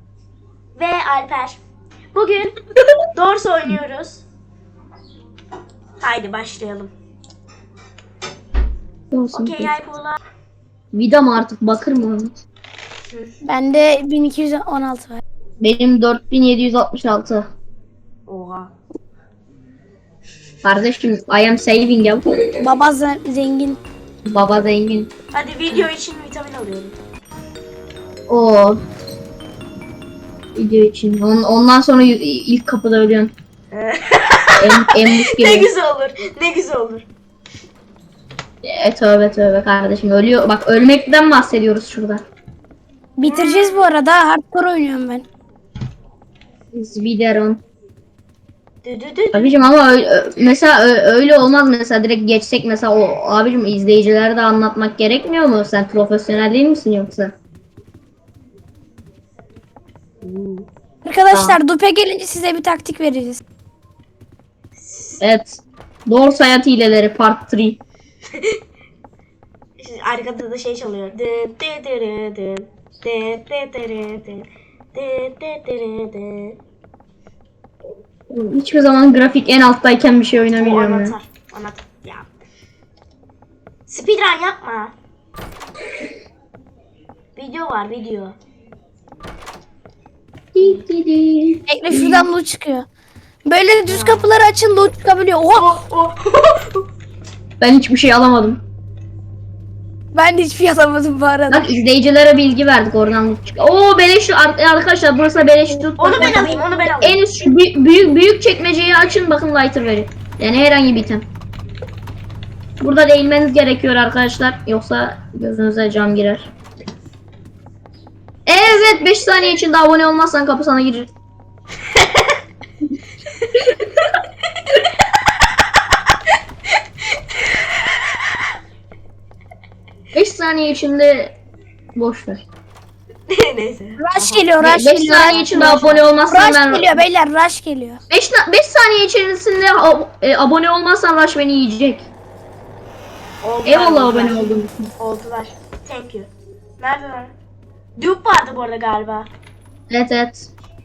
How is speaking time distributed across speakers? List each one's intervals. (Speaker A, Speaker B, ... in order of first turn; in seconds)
Speaker A: 0.8-1.6, 2.1-2.6, 3.1-4.2, 6.0-6.9, 9.3-10.2, 18.3-18.7, 25.3-27.0, 33.7-37.1, 43.2-43.9, 48.8-49.6, 60.2-60.7, 64.8-65.2, 68.3-68.6, 69.8-76.6, 80.5-82.3, 83.9-84.9, 87.4-88.4, 93.9-94.3, 95.5-96.9, 106.0-107.2, 118.6-119.3, 121.9-122.3, 133.3-134.6, 135.1-136.1, 143.4-147.3, 148.0-149.3
Speaker B: 9.1-9.8, 10.9-12.3, 15.6-17.5, 20.6-22.6, 24.2-25.1, 28.3-28.8, 30.6-33.3, 34.6-35.7, 38.6-42.2, 46.7-47.6, 49.3-57.3, 61.3-61.6, 65.2-67.8, 78.3-81.2, 90.5-92.3, 97.6-98.6, 101.5-111.2, 112.8-116.5, 118.5-121.1, 130.1-131.4, 132.0-132.4, 134.6-137.0, 138.1-142.1, 143.7-144.9, 149.9-150.5
Speaker C: 13.4-15.2, 22.6-23.8, 43.2-45.2, 61.0-63.4, 91.7-92.9, 93.5-95.8, 100.1-101.7, 106.1-106.6, 134.0-135.7, 136.3-138.0